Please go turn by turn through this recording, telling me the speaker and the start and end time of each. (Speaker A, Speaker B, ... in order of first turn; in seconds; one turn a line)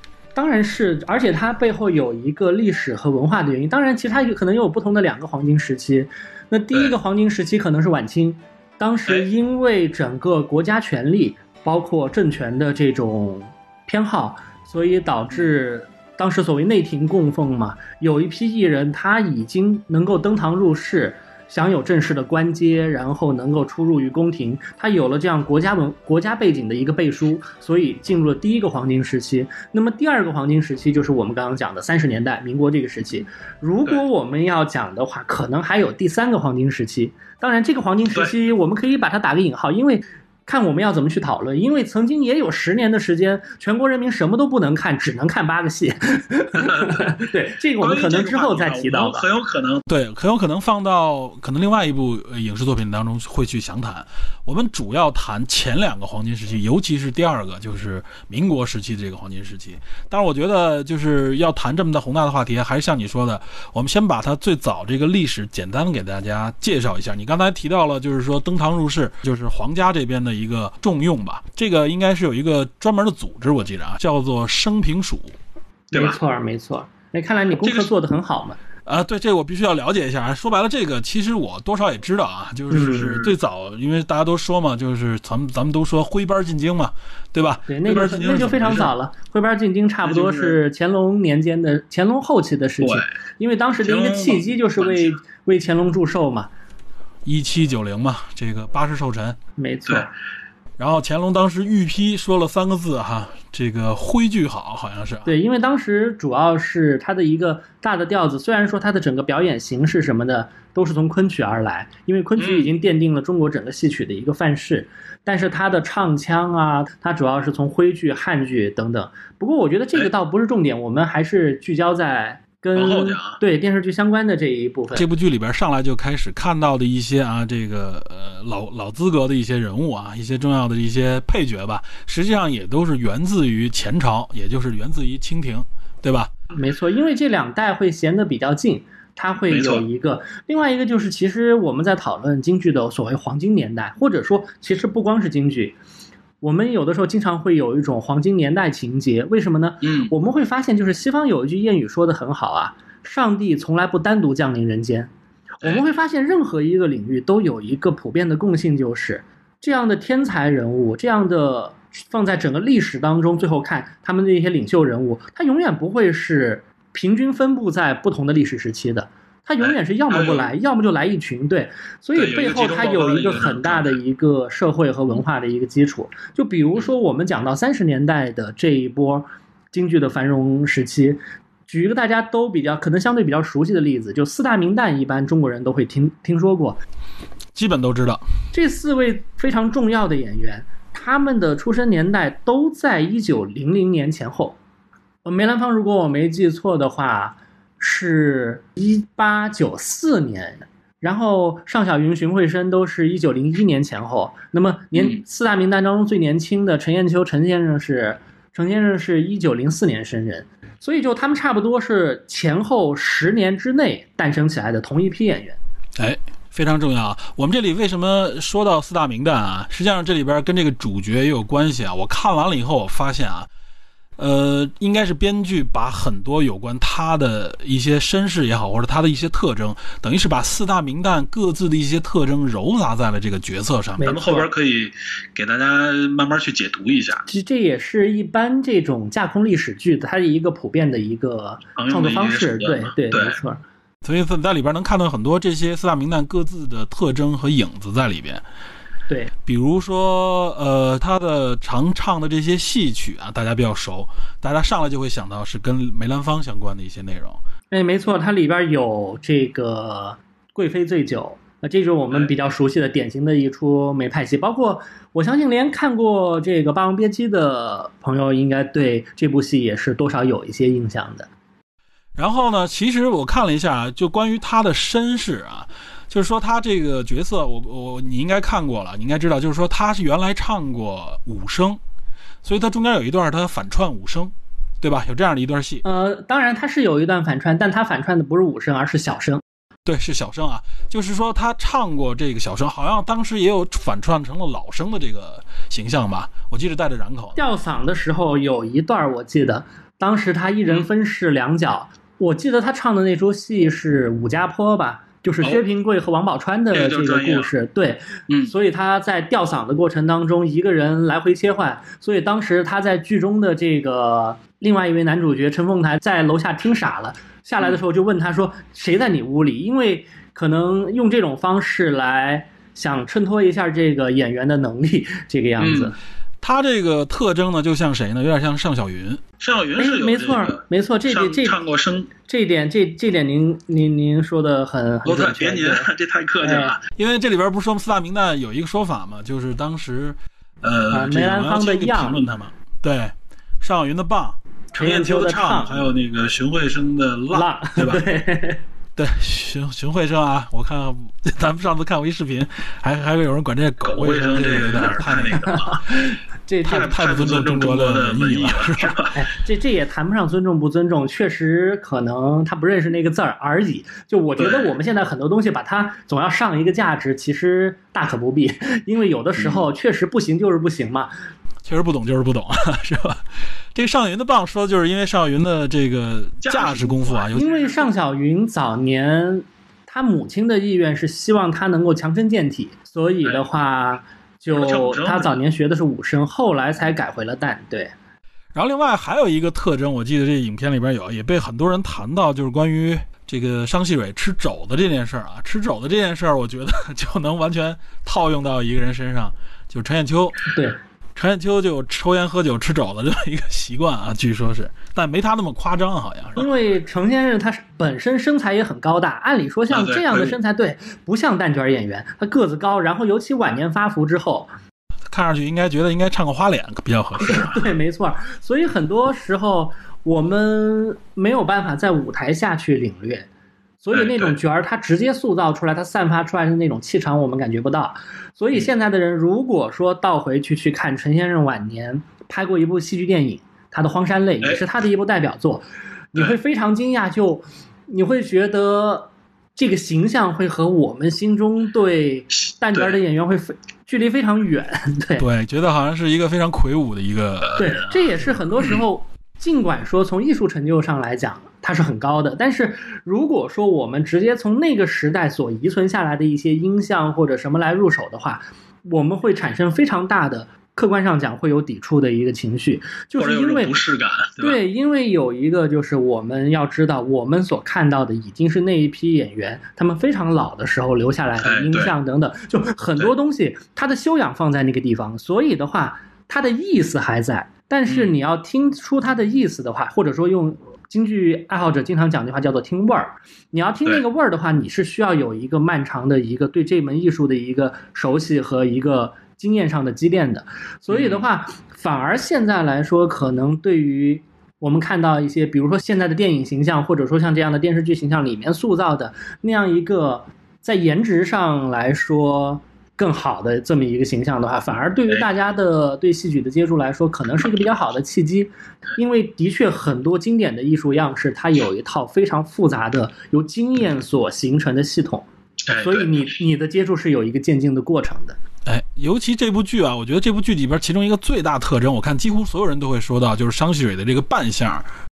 Speaker A: 0.3-49.2
Speaker B: 46.7-47.1
Speaker B: 47.8-49.9
Speaker C: 49.9-75.3
Speaker A: 75.9-78.6
Speaker B: 77.6-77.9
Speaker C: 78.8-88.9
Speaker A: 82.7-83.2
Speaker A: 87.7-96.5
Speaker B: 90.0-90.6
Speaker B: 92.8-93.1
Speaker B: 93.8-95.1
Speaker C: 97.2-99.4
Speaker A: 99.6-100.1
Speaker C: 100.8-105.3
Speaker A: 105.2-125.0
Speaker B: 112.4-112.7
Speaker B: 122.7-123.4
Speaker C: 124.9-136.3
Speaker A: 136.5-145.8
Speaker B: 139.5-139.8
Speaker A: 146.4-155.1
Speaker B: 149.8-150.1
Speaker A: 155.6-186.8
Speaker B: 169.6-170.5
Speaker B: 172.1-174.0
Speaker C: 187.5-188.2
Speaker A: 188.5-194.6
Speaker A: 195.2-215.6
Speaker C: 215.9-223.5
Speaker C: 224.2-234.1
Speaker A: 234.0-234.5
Speaker B: 234.0-237.2
Speaker A: 237.3-243.6
Speaker B: 241.8-243.4
Speaker C: 244.0-248.4
Speaker C: 249.4-257.4
Speaker A: 257.7-271.3
Speaker C: 272.1-281.8
Speaker C: 282.4-285.8
Speaker A: 285.8-289.4
Speaker C: 289.9-297.4
Speaker A: 297.4-325.9
Speaker B: 306.7-307.5
Speaker B: 325.6-325.9
Speaker C: 326.4-329.2
Speaker B: 329.4-332.1
Speaker A: 329.8-331.6
Speaker A: 332.2-335.9
Speaker B: 335.0-336.8
Speaker A: 336.4-336.7
Speaker C: 336.9-340.2
Speaker B: 340.6-341.3
Speaker A: 340.9-342.2
Speaker C: 341.0-344.4
Speaker A: 344.7-345.8
Speaker B: 344.8-348.0
Speaker A: 347.3-348.6
Speaker C: 348.9-355.7
Speaker B: 353.8-355.9
Speaker A: 355.4-357.0
Speaker C: 356.7-358.9
Speaker B: 356.7-359.1
Speaker A: 359.1-371.1
Speaker B: 364.4-364.7
Speaker C: 371.6-377.5
Speaker B: 376.4-377.9
Speaker A: 377.3-387.9
Speaker B: 384.5-385.4
Speaker C: 388.5-400.4
Speaker A: 400.5-400.8
Speaker C: 401.1-406.4
Speaker A: 406.4-414.5
Speaker B: 409.7-410.4
Speaker C: 415.1-417.6
Speaker A: 417.2-423.3
Speaker A: 423.8-445.2
Speaker B: 423.9-424.3
Speaker C: 445.2-447.8
Speaker A: 447.6-463.8
Speaker B: 463.2-464.6
Speaker A: 464.4-518.4
Speaker B: 471.4-471.9
Speaker B: 477.9-478.1
Speaker B: 490.9-491.2
Speaker B: 515.6-516.3
Speaker C: 518.6-524.9